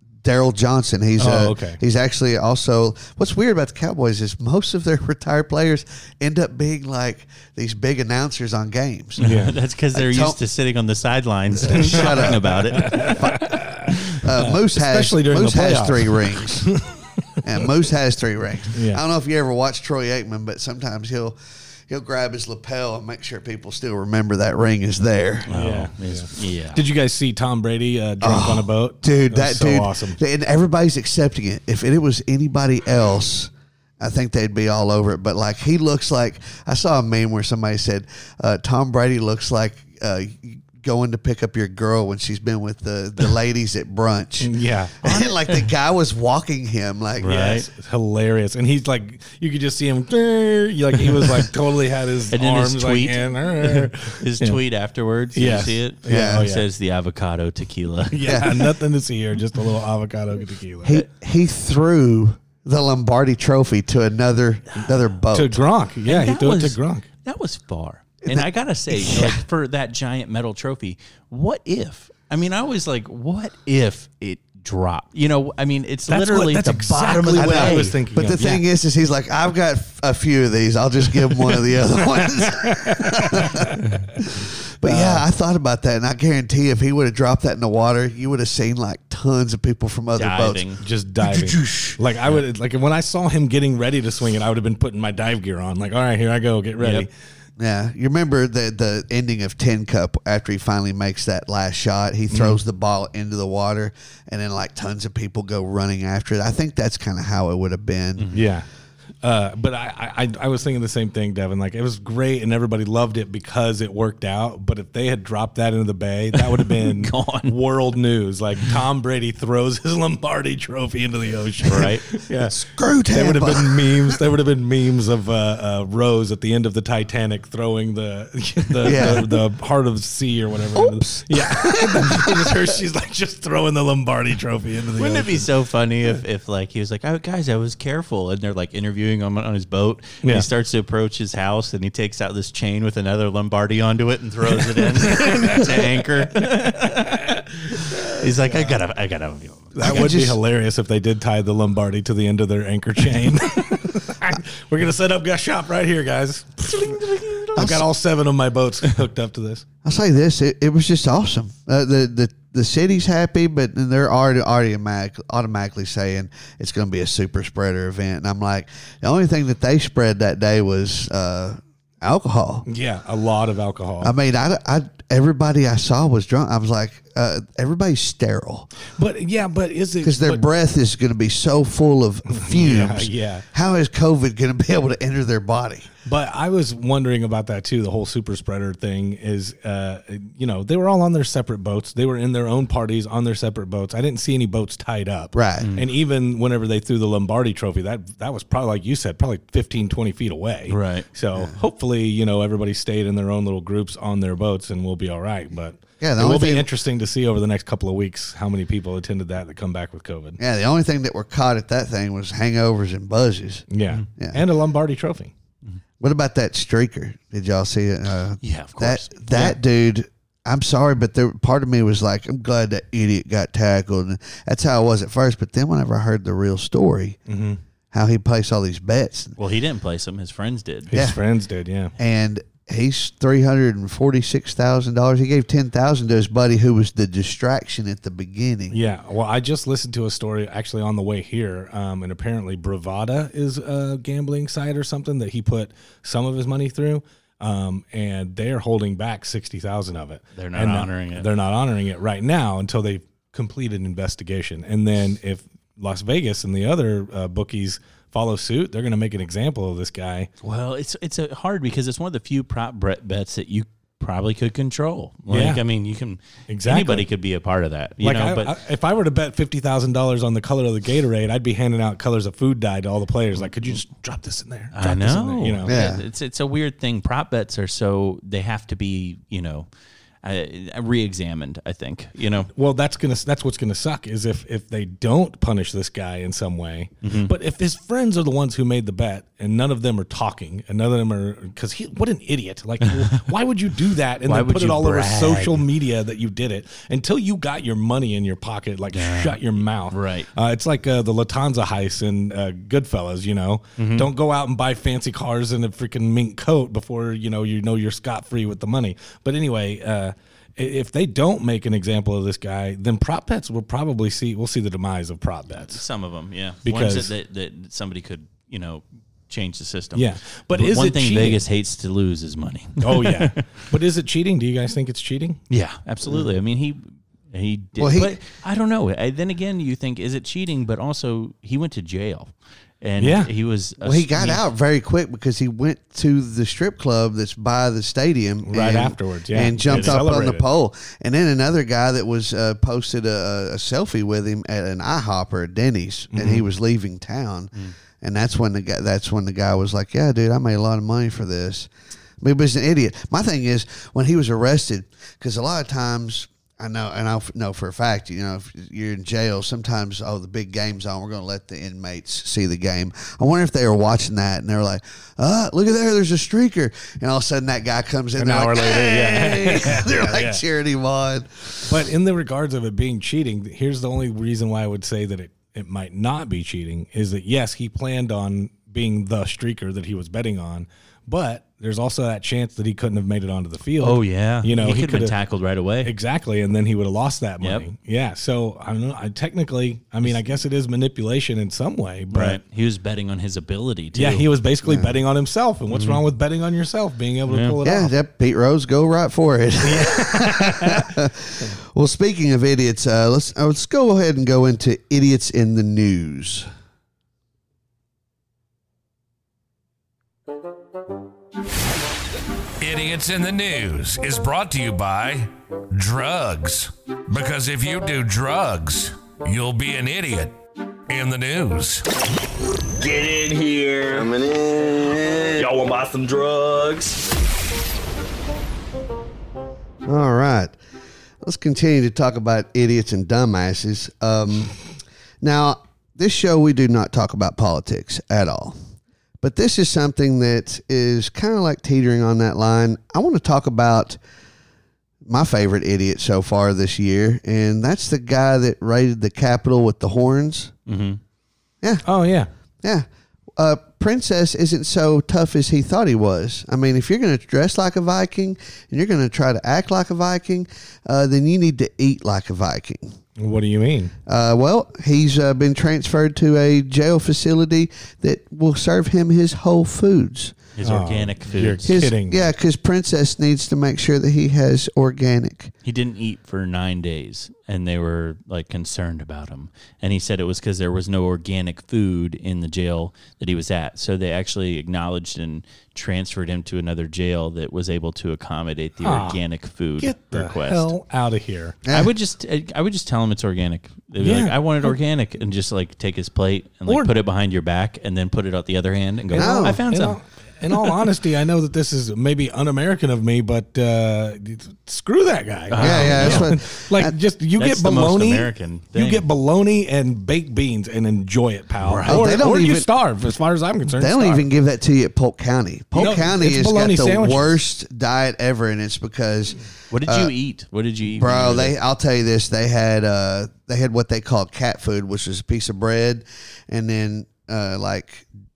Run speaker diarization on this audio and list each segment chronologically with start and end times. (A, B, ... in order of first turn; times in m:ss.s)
0:00.2-0:09.3 A
0:01.2-0:01.8 B
0:09.2-0:13.2 C
0:09.2-0:09.5 B
0:09.9-0:10.4 A
0:11.6-0:13.7 A
0:12.0-0:17.6 B
0:14.2-0:16.7 A
0:17.4-0:25.5 A
0:18.7-0:19.0 B
0:25.5-0:26.8 C
0:25.5-0:30.2 B
0:28.2-0:47.6 A
0:44.4-0:45.0 B
0:45.1-0:45.6 C
0:47.2-0:47.7 C
0:47.7-0:54.6 B
0:52.3-0:58.4 C
0:55.3-0:56.6 B
0:56.1-0:56.5 A
0:58.1-1:01.0 B
0:58.2-0:58.6 A
1:00.8-1:05.6 A
1:05.3-1:07.1 B
1:06.0-1:18.0 C
1:08.3-1:09.4 A
1:16.1-1:18.6 B
1:17.4-1:30.6 A
1:22.2-1:23.9 B
1:24.8-1:25.2 B
1:30.1-1:30.8 C
1:30.8-1:37.1 B
1:31.2-1:32.0 A
1:36.8-1:37.1 C
1:37.6-1:48.2 A
1:42.3-1:42.6 B
1:48.2-1:48.4 C
1:48.3-1:48.7 B
1:49.2-2:15.5 B
1:56.3-1:57.5 C
2:01.6-2:02.0 C
2:02.4-2:04.2 A
2:08.8-2:09.3 A
2:10.8-2:12.7 A
2:15.0-2:29.8 C
2:25.0-2:28.8 B
2:29.7-2:39.6 B
2:29.8-2:30.4 A
2:36.7-2:37.8 C
2:37.6-2:37.8 A
2:39.8-2:52.6 A
2:52.7-2:54.1 B
2:54.0-2:58.7 A
2:58.9-3:00.4 B
3:00.0-3:05.9 A
3:02.3-3:03.4 B
3:06.0-3:30.4 B
3:15.3-3:15.7 A
3:15.6-3:15.8 C
3:20.7-3:21.1 C
3:26.0-3:26.7 A
3:30.4-3:33.7 A
3:33.7-3:35.3 B
3:34.2-3:34.4 A
3:36.0-3:47.2 A
3:38.4-3:39.5 C
3:47.3-3:47.6 B
3:47.9-3:49.4 A
3:49.4-3:50.9 C
3:50.9-3:51.9 B
3:50.9-3:51.2 A
3:52.0-3:58.8 A
3:58.7-4:20.3 B
4:10.3-4:11.3 C
4:20.4-4:28.5 C
4:25.3-4:25.6 B
4:26.5-4:27.1 B
4:28.0-4:35.8 B
4:34.7-4:39.7 C
4:35.6-4:36.0 A
4:40.2-4:42.5 C
4:42.5-5:15.8 B
4:47.0-4:47.3 C
4:54.2-4:55.6 C
4:58.9-5:00.3 C
5:03.8-5:04.1 C
5:15.7-5:23.5 C
5:16.6-5:17.1 B
5:19.9-5:21.4 B
5:22.8-5:25.4 B
5:25.5-5:34.4 C
5:27.8-5:28.1 A
5:33.0-5:33.3 B
5:33.8-5:51.7 A
5:38.4-5:40.4 B
5:39.7-5:40.0 C
5:46.1-5:46.4 B
5:52.2-6:11.8 A
6:08.2-6:10.4 B
6:11.6-6:25.2 B
6:23.8-6:25.9 C
6:25.8-6:32.4 B
6:32.1-6:34.3 C
6:33.9-6:37.9 B
6:34.6-6:35.0 A
6:35.7-6:36.0 C
6:37.3-6:37.6 C
6:37.6-6:46.5 A
6:39.6-6:41.0 B
6:52.6-7:00.3 D
7:00.9-7:01.8 D
7:02.8-7:07.0 E
7:09.8-7:10.6 A
7:11.2-7:14.6 A
7:15.2-7:18.6 A
7:19.2-7:24.0 A
7:25.0-7:30.5 A
7:30.7-7:31.0 C
7:31.8-7:32.3 B
7:32.6-7:43.0 A
7:43.2-7:43.9 B
7:44.0-7:50.4 A
7:50.6-7:51.8 C
7:50.6-7:52.3 B
7:51.6-7:55.5 A
7:55.6-8:10.7 C
8:08.8-8:09.2 B
8:09.8-8:11.6 B
8:11.6-8:11.9 A
8:11.7-8:20.0 C
8:14.0-8:14.8 B
8:19.1-8:34.2 B
8:19.1-8:19.6 A
8:25.5-8:26.3 C
8:25.6-8:26.9 A
8:27.4-8:29.0 C
8:31.6-8:32.0 C
8:31.8-8:32.7 A
8:33.7-8:40.1 A
8:35.7-8:37.4 B
8:39.7-8:41.5 C
8:41.0-8:48.1 A